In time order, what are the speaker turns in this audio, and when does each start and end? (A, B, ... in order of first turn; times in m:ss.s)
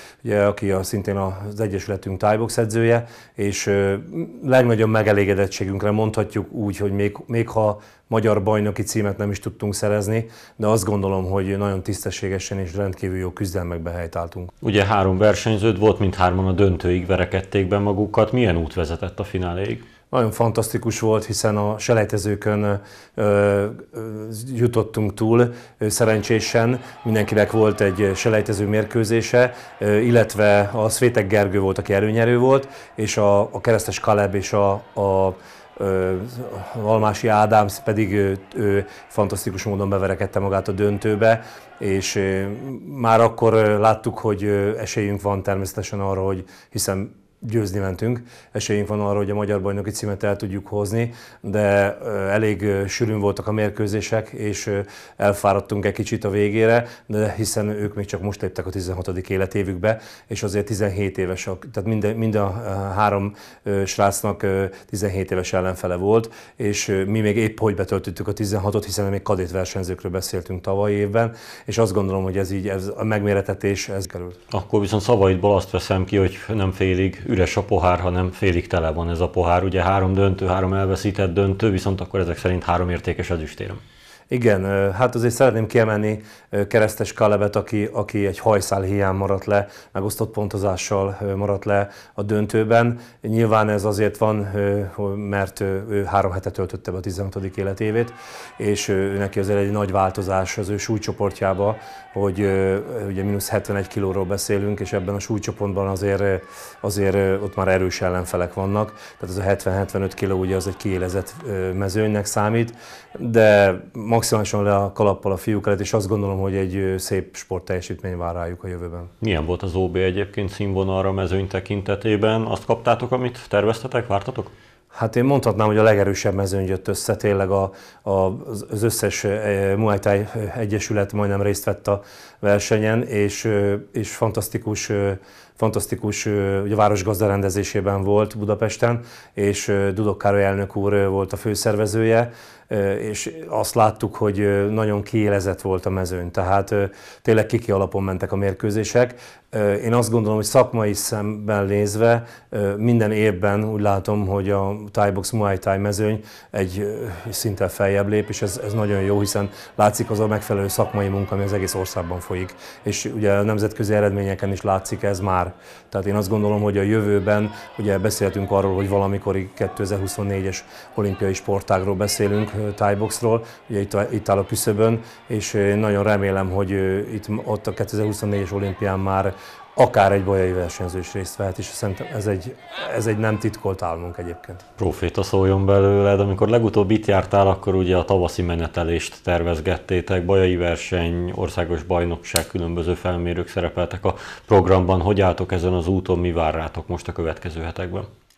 0:00.2-0:14.5 A
0:14.6-0:19.8 B
0:20.1-1:14.4 A
1:14.5-1:23.8 B
1:24.3-1:59.1 A
1:59.2-2:04.5 B
2:04.9-3:04.6 A
3:04.8-3:18.1 B